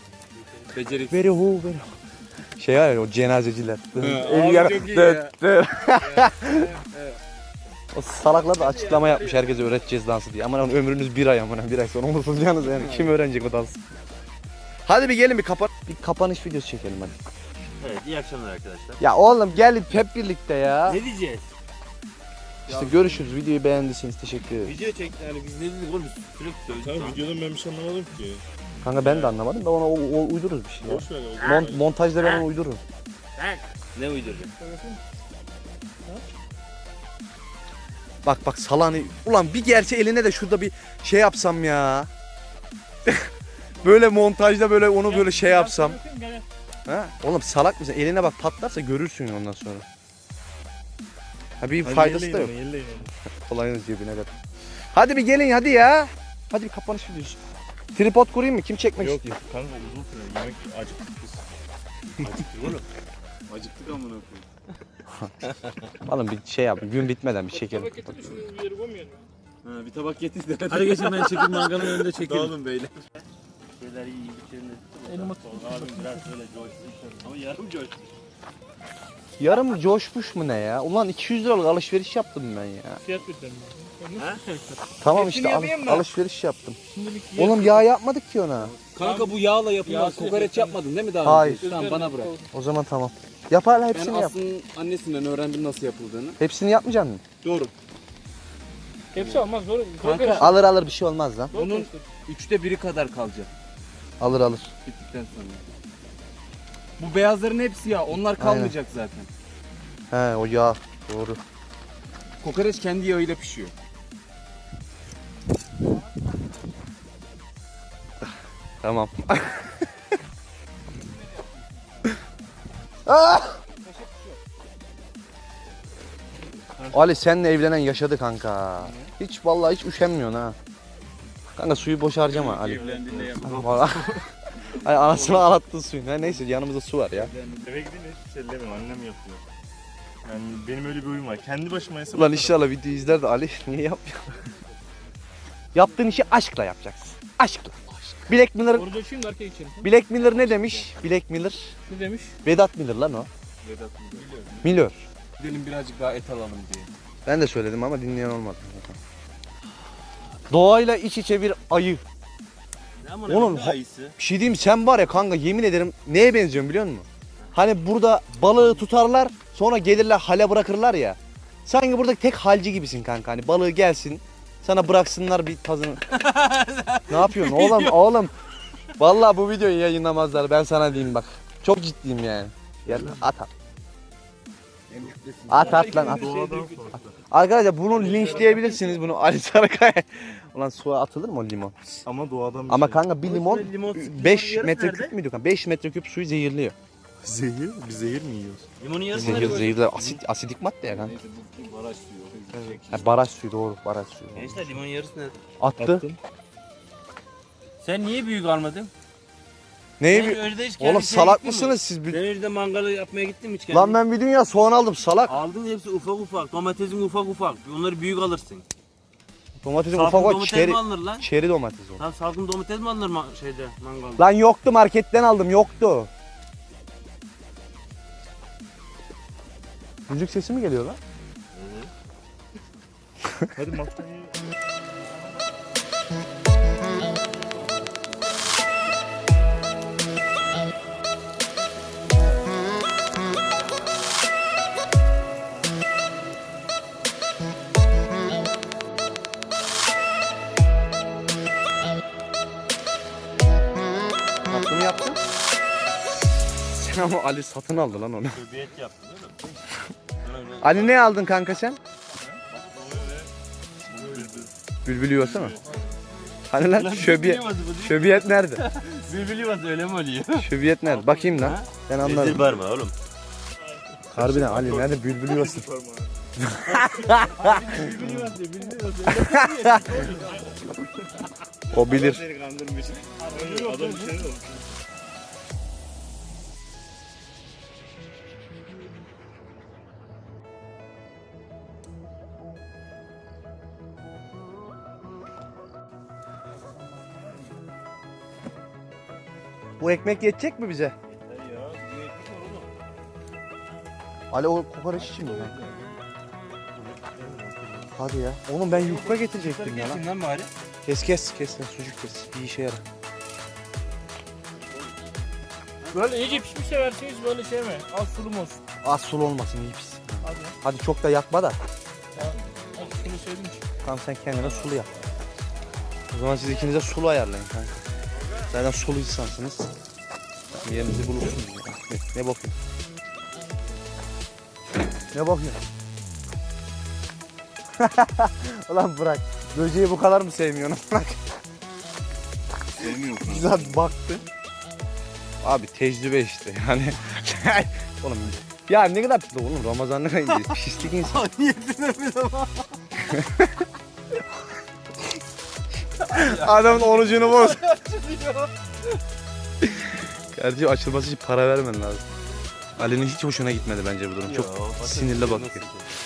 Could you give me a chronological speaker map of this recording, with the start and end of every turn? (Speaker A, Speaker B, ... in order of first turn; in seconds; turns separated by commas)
Speaker A: 0.7-1.3, Speaker B: 1.1-1.9, Speaker B: 2.6-6.7, Speaker A: 4.0-5.3, Speaker A: 5.9-7.2, Speaker B: 7.9-13.8, Speaker A: 8.5-9.7, Speaker A: 12.7-13.1, Speaker B: 14.8-17.1, Speaker C: 17.8-19.0, Speaker B: 19.0-21.0, Speaker C: 20.9-21.5, Speaker A: 22.7-23.2, Speaker B: 22.7-24.8, Speaker C: 24.6-27.3, Speaker D: 26.7-29.3, Speaker B: 28.8-32.8, Speaker D: 30.8-31.8, Speaker C: 31.4-32.5, Speaker C: 33.4-34.5, Speaker E: 34.6-35.0, Speaker B: 38.2-42.1, Speaker B: 43.8-46.0, Speaker E: 45.0-46.4, Speaker B: 46.9-49.8, Speaker B: 51.6-52.5, Speaker D: 51.8-53.1, Speaker B: 53.5-54.3, Speaker B: 54.9-57.4, Speaker B: 57.9-59.2, Speaker D: 59.0-61.5, Speaker C: 62.2-62.8, Speaker A: 63.5-64.5, Speaker B: 66.0-68.4, Speaker E: 67.5-69.2, Speaker A: 69.6-73.0, Speaker C: 70.7-72.6, Speaker C: 73.8-78.1, Speaker E: 75.0-76.3, Speaker D: 76.8-77.3, Speaker B: 79.4-83.0, Speaker E: 83.0-84.9, Speaker B: 85.0-86.8, Speaker A: 85.1-86.1, Speaker E: 86.9-87.8, Speaker B: 87.3-88.7, Speaker A: 88.8-92.3, Speaker E: 89.0-90.8, Speaker B: 91.2-91.6, Speaker E: 91.6-92.5, Speaker B: 92.5-94.3, Speaker A: 93.9-96.4, Speaker B: 96.4-97.2, Speaker A: 97.4-97.7, Speaker E: 99.1-100.5, Speaker A: 99.1-99.4, Speaker A: 100.0-100.5, Speaker B: 100.4-101.5, Speaker E: 101.5-102.1, Speaker A: 101.5-103.5, Speaker B: 104.2-104.7, Speaker A: 104.8-105.6, Speaker A: 107.0-109.3, Speaker B: 108.4-108.7, Speaker B: 110.1-111.4, Speaker A: 112.4-113.7, Speaker B: 118.8-119.9, Speaker A: 121.4-122.1, Speaker B: 123.0-123.6, Speaker A: 123.8-124.4, Speaker D: 126.8-127.1, Speaker B: 126.9-130.6, Speaker B: 131.6-137.3, Speaker A: 132.3-133.9, Speaker D: 132.7-133.9, Speaker A: 134.6-135.6, Speaker A: 137.1-137.8, Speaker D: 137.6-139.4, Speaker D: 140.2-142.6, Speaker B: 142.1-144.4, Speaker B: 145.7-147.8, Speaker A: 147.9-148.3, Speaker B: 148.3-148.9, Speaker E: 148.7-149.9, Speaker B: 149.8-151.7, Speaker A: 150.3-150.8, Speaker E: 151.9-152.3, Speaker B: 152.4-153.3, Speaker A: 153.6-154.3, Speaker C: 154.1-154.7, Speaker B: 154.6-155.0, Speaker A: 155.4-156.9, Speaker B: 157.2-159.0, Speaker B: 160.5-162.0, Speaker C: 163.0-164.2, Speaker B: 163.3-176.2, Speaker A: 176.1-178.0, Speaker B: 177.1-178.3, Speaker B: 179.0-183.5, Speaker D: 182.9-183.3, Speaker A: 184.9-186.9, Speaker B: 185.5-186.3, Speaker D: 185.7-187.2, Speaker B: 187.3-191.8, Speaker C: 188.1-188.6, Speaker D: 188.2-188.6, Speaker D: 192.0-193.0, Speaker B: 192.7-196.8, Speaker C: 193.2-195.1, Speaker D: 197.2-198.7, Speaker C: 198.8-200.2, Speaker B: 199.1-201.1, Speaker D: 199.2-199.6, Speaker A: 199.2-199.7, Speaker A: 200.8-203.1, Speaker D: 202.5-202.8, Speaker B: 202.9-204.6, Speaker C: 204.3-205.4, Speaker B: 205.6-206.0, Speaker D: 205.8-206.2, Speaker C: 207.8-208.9, Speaker B: 210.0-212.2, Speaker C: 210.1-214.0, Speaker B: 213.7-215.3, Speaker C: 215.3-218.6, Speaker B: 219.6-222.0, Speaker C: 219.9-221.3, Speaker C: 222.0-224.3, Speaker B: 224.2-226.1, Speaker B: 230.1-231.0, Speaker C: 231.5-231.9, Speaker D: 233.5-234.3, Speaker B: 254.5-255.2, Speaker B: 256.6-258.4, Speaker C: 258.3-259.4, Speaker C: 260.2-261.0, Speaker B: 260.6-261.8, Speaker D: 262.1-263.3, Speaker D: 263.8-264.5, Speaker C: 263.9-264.5, Speaker B: 264.8-265.6, Speaker D: 265.2-265.9, Speaker B: 266.5-268.7, Speaker C: 266.7-270.5, Speaker B: 270.3-272.5, Speaker C: 271.3-272.9, Speaker E: 273.6-274.1, Speaker B: 274.1-275.7, Speaker D: 274.1-276.3, Speaker B: 276.4-277.8, Speaker A: 277.4-278.7, Speaker C: 277.5-277.9, Speaker E: 277.8-279.1, Speaker B: 279.1-280.0, Speaker C: 279.1-280.2, Speaker E: 279.8-280.2, Speaker D: 280.1-280.7, Speaker D: 281.7-284.7, Speaker B: 281.7-282.2, Speaker E: 283.2-284.3, Speaker B: 299.8-300.9, Speaker C: 301.1-302.7, Speaker B: 304.3-305.5, Speaker D: 306.7-307.9, Speaker B: 307.9-310.0, Speaker C: 308.7-310.5, Speaker B: 310.9-312.8, Speaker C: 315.8-316.4, Speaker E: 315.9-318.6, Speaker B: 318.8-321.6, Speaker E: 320.2-320.6, Speaker E: 322.1-323.6, Speaker B: 323.8-324.9, Speaker C: 324.3-325.0, Speaker B: 326.1-327.8, Speaker B: 328.5-329.7, Speaker B: 330.6-332.5, Speaker B: 335.1-335.6, Speaker B: 337.8-341.2, Speaker A: 342.8-343.7, Speaker B: 343.2-344.2, Speaker B: 345.4-351.2, Speaker C: 350.3-352.6, Speaker B: 353.0-353.6, Speaker B: 356.1-357.6, Speaker C: 356.1-358.3, Speaker A: 356.2-356.5, Speaker B: 359.6-362.0, Speaker B: 362.8-365.6, Speaker C: 364.2-365.8